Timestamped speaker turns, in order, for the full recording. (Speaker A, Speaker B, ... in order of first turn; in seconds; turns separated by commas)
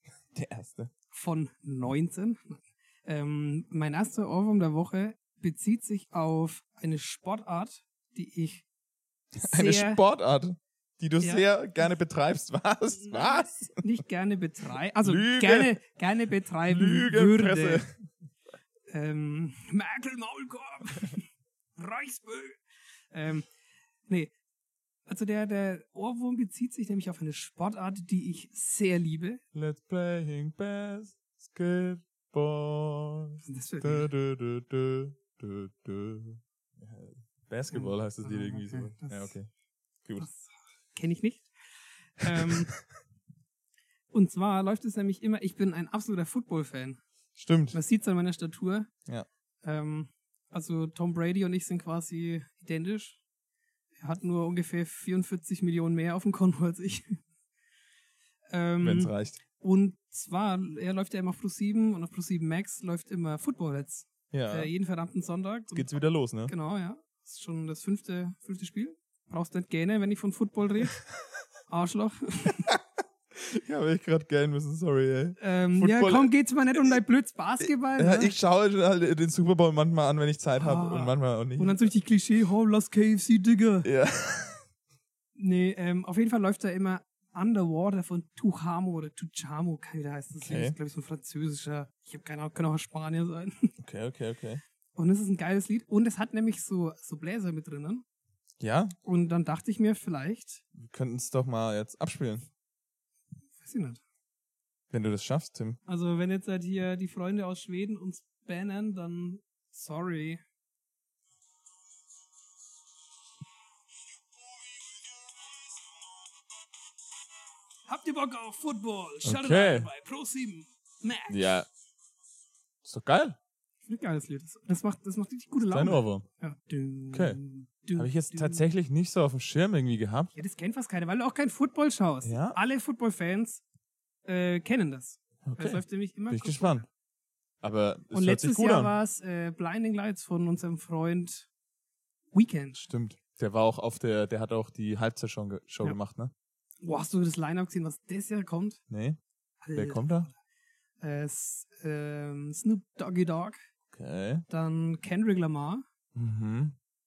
Speaker A: 0.3-0.9, Speaker B: 1.1-8.7, Speaker B: 9.3-10.0, Speaker A: 9.4-13.8, Speaker B: 11.2-11.4, Speaker B: 13.0-17.8, Speaker A: 15.0-15.8, Speaker A: 16.7-17.9, Speaker B: 18.9-21.3, Speaker B: 21.8-22.6, Speaker B: 23.1-23.5, Speaker B: 24.1-24.3, Speaker B: 25.1-29.4, Speaker A: 29.5-39.5, Speaker B: 33.4-34.1, Speaker B: 37.7-39.4, Speaker B: 40.2-41.5, Speaker B: 42.2-42.7, Speaker A: 42.3-42.6, Speaker B: 44.1-47.0, Speaker A: 47.4-47.8, Speaker B: 47.7-48.9, Speaker B: 49.6-53.2, Speaker B: 54.0-57.2, Speaker B: 58.5-65.9, Speaker A: 58.8-59.4, Speaker A: 64.3-64.7, Speaker A: 65.7-66.5, Speaker B: 66.5-71.0, Speaker B: 71.7-72.7, Speaker A: 73.3-76.3, Speaker B: 75.4-78.3, Speaker A: 77.6-81.9, Speaker B: 80.5-83.9, Speaker A: 83.8-84.7, Speaker B: 85.4-93.8, Speaker A: 90.4-90.8, Speaker A: 93.8-94.6, Speaker B: 95.0-98.0, Speaker A: 98.6-99.0, Speaker B: 99.0-100.6, Speaker A: 100.7-102.5, Speaker B: 103.6-104.0, Speaker A: 104.9-105.8, Speaker B: 105.9-110.4, Speaker B: 117.9-121.6, Speaker A: 119.2-119.9, Speaker A: 121.3-121.7, Speaker A: 122.8-123.4, Speaker B: 123.9-128.7, Speaker A: 125.7-126.3, Speaker A: 127.1-127.4, Speaker A: 128.0-130.3, Speaker B: 130.3-133.6, Speaker A: 132.2-132.6, Speaker B: 134.3-136.8, Speaker A: 135.4-136.8, Speaker A: 137.6-138.9, Speaker B: 138.1-141.5, Speaker B: 142.3-142.9, Speaker A: 142.9-146.3, Speaker B: 146.8-148.8, Speaker A: 148.9-149.2, Speaker B: 149.6-150.3, Speaker A: 149.8-150.3, Speaker B: 151.0-153.6, Speaker A: 153.9-154.4, Speaker B: 154.5-155.8, Speaker A: 156.2-156.8